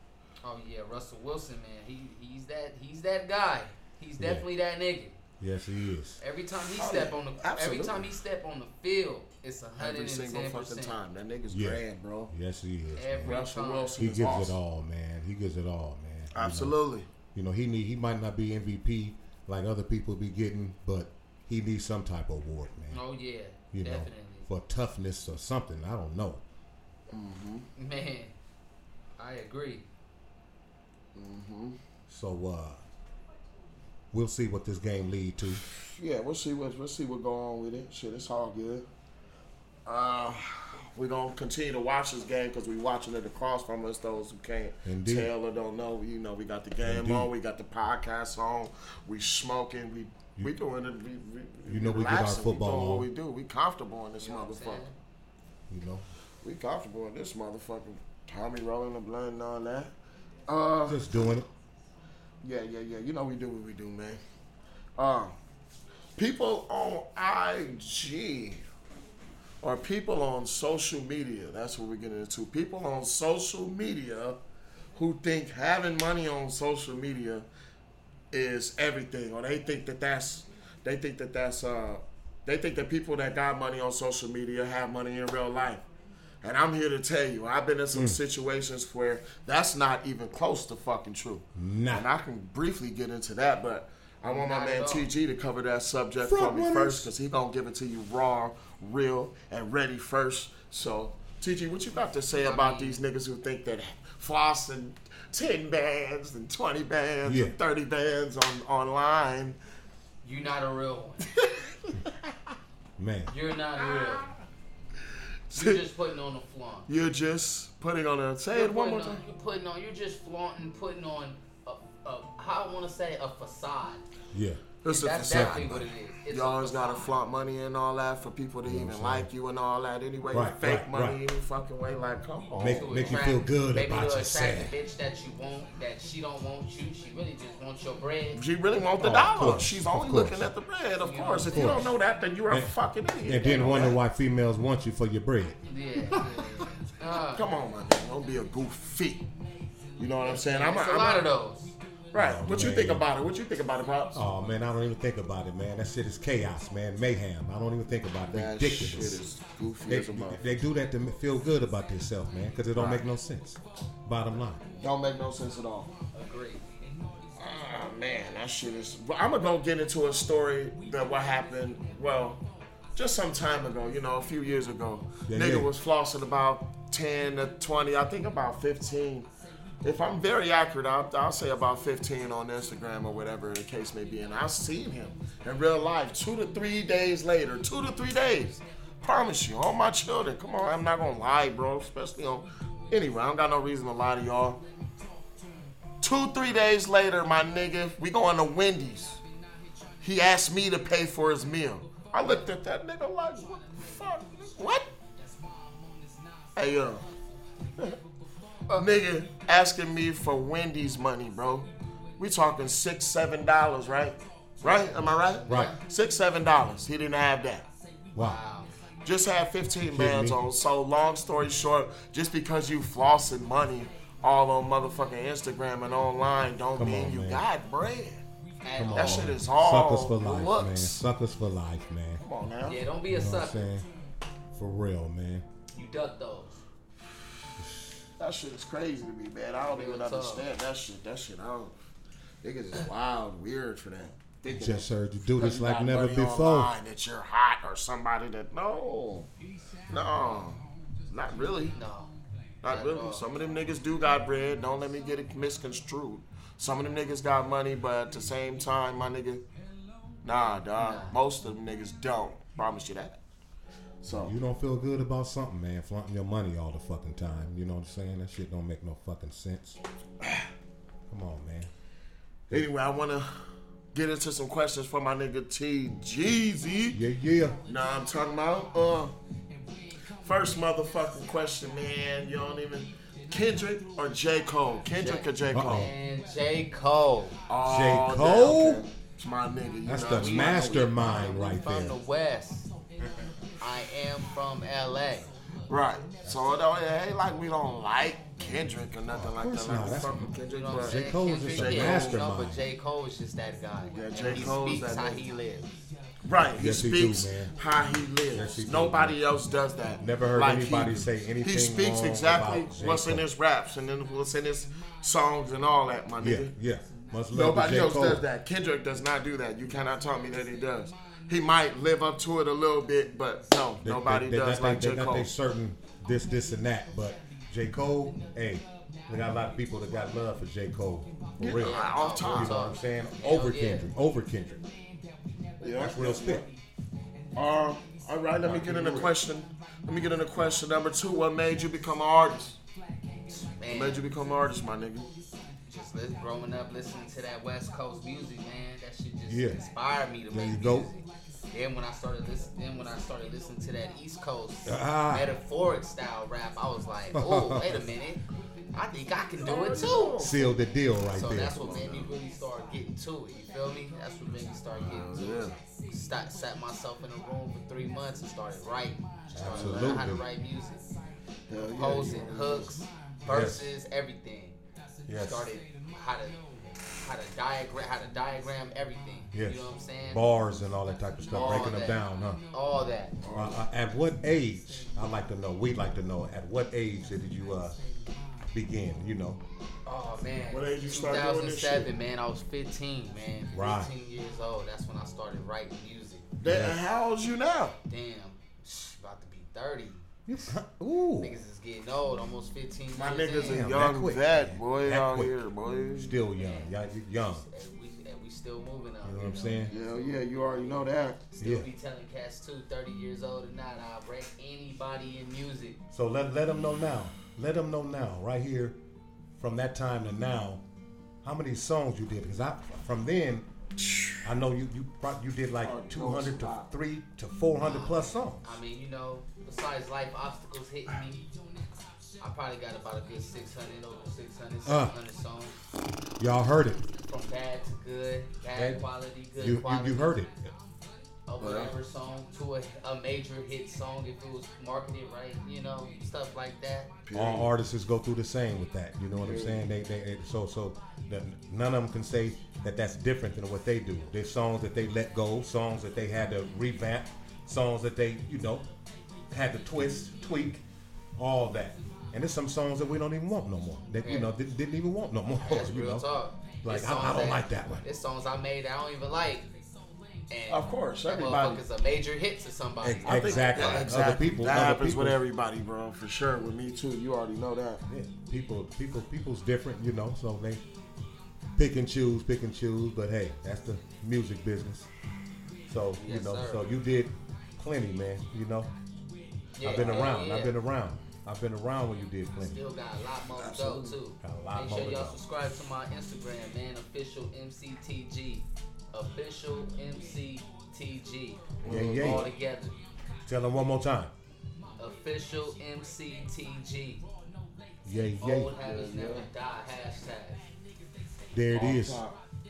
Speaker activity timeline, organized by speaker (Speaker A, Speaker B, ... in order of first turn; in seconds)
Speaker A: 0.4-5.2, 6.2-10.9, 12.9-14.0, 22.9-24.5, 27.8-28.3, 29.2-29.8, 54.2-54.9, 94.2-95.1, 102.3-103.0, 110.2-111.3, 113.3-114.2, 115.5-116.9, 118.5-124.0, 124.8-127.1, 132.7-138.4, 141.0-141.9, 143.4-143.9, 145.7-147.4, 150.2-151.7, 166.1-166.7, 214.6-215.8, 218.2-218.7, 228.6-229.3, 232.7-233.7, 235.8-236.6, 239.7-240.5, 251.7-252.1, 252.6-253.3, 260.8-261.2, 284.9-287.4, 290.1-292.7, 293.6-295.3, 300.5-305.8, 331.6-333.9, 343.3-344.1, 345.7-358.2, 358.7-360.2, 361.1-370.8, 371.7-374.6, 375.2-380.2, 381.3-383.2, 389.8-396.3, 397.9-400.1, 401.2-403.7, 406.4-409.8, 411.3-415.8, 427.6-431.2, 432.2-435.6, 436.9-440.1, 441.3-446.9, 464.0-464.3, 465.4-469.5, 470.3-474.0, 486.0-486.7, 489.6-490.6, 492.4-502.8, 504.8-507.0, 508.2-510.4
Speaker B: 4.2-4.5, 5.4-6.2, 11.5-13.4, 14.0-16.8, 17.3-23.0, 23.7-26.4, 32.1-32.8, 34.1-35.6, 44.8-45.3, 46.8-47.3, 51.7-53.1, 55.7-56.0, 60.9-61.5, 87.9-88.2, 91.5-92.1, 96.2-97.1, 107.2-107.6, 113.0-113.3, 124.3-124.7, 125.2-125.8, 128.6-129.3, 130.3-131.2, 132.6-134.7, 139.0-140.5, 141.5-141.9, 142.5-146.6, 152.1-153.1, 154.1-159.2, 159.9-164.6, 175.3-175.7, 219.9-220.4, 226.8-227.4, 228.8-232.2, 233.1-233.8, 234.5-235.4, 237.6-237.9, 244.5-246.7, 264.1-269.8, 271.1-271.7, 276.9-277.6, 285.5-285.9, 287.6-288.8, 289.8-291.9, 296.2-296.5, 299.1-302.6, 306.4-307.6, 308.3-309.2, 310.0-313.3, 316.2-318.2, 323.8-334.6, 335.8-336.4, 338.4-339.1, 349.3-349.6, 350.3-350.9, 354.6-355.3, 357.1-357.8, 360.2-361.9, 369.3-370.2, 373.2-373.7, 375.1-375.5, 379.3-382.4, 383.3-387.8, 388.5-389.4, 393.5-393.9, 396.4-396.8, 400.3-401.3, 403.3-405.3, 405.9-407.4, 409.0-409.7, 411.4-411.7, 415.9-418.8, 419.4-420.6, 421.2-423.5, 424.2-428.4, 434.6-434.9, 436.2-436.8, 438.5-438.8, 439.4-440.5, 447.1-458.7, 459.3-460.6, 461.2-466.1, 466.6-467.9, 472.8-475.2, 477.9-480.6, 481.6-484.9, 485.7-488.7, 489.6-492.6, 494.2-495.2, 501.6-502.3, 503.2-504.1, 507.8-508.5, 511.3-512.0
Speaker C: 6.8-8.1, 9.8-12.3, 13.2-14.6, 16.3-17.1, 27.1-27.7, 31.1-31.8, 35.7-38.9, 39.9-54.9, 56.4-59.9, 60.5-61.4, 62.4-64.2, 65.0-65.3, 66.2-68.6, 69.6-74.4, 75.0-77.5, 78.3-85.8, 86.4-109.6, 111.3-112.0, 113.8-114.3, 115.5-115.8, 116.9-119.2, 124.8-133.2, 138.3-144.0, 147.3-149.2, 150.0-151.2, 152.1-154.2, 158.3-160.5, 162.8-163.0, 164.8-165.9, 167.4-172.4, 172.9-179.3, 179.8-194.6, 196.0-199.2, 200.0-204.8, 206.6-207.1, 208.7-217.6, 219.0-228.2, 228.9-231.0, 232.2-232.8, 238.2-241.7, 242.4-249.3, 249.9-251.8, 252.6-259.4, 260.2-263.2, 264.0-264.3, 272.5-273.3, 273.9-277.0, 277.6-279.1, 280.2-285.9, 287.5-291.3, 295.7-301.0, 301.5-302.2, 303.9-305.2, 306.2-316.5, 317.3-325.3, 331.4-332.6, 335.6-336.5, 337.3-342.6, 343.7-345.1, 359.4-360.4, 361.4-362.1, 364.8-365.6, 371.5-372.7, 381.3-381.8, 383.2-383.6, 390.5-391.9, 396.4-397.8, 402.9-406.2, 409.7-411.2, 423.8-424.2, 425.6-426.7, 441.4-441.7, 447.1-447.5, 449.2-449.6, 470.5-471.6, 473.1-477.8, 493.3-494.0, 501.6-502.3, 508.6-509.3, 511.5-512.2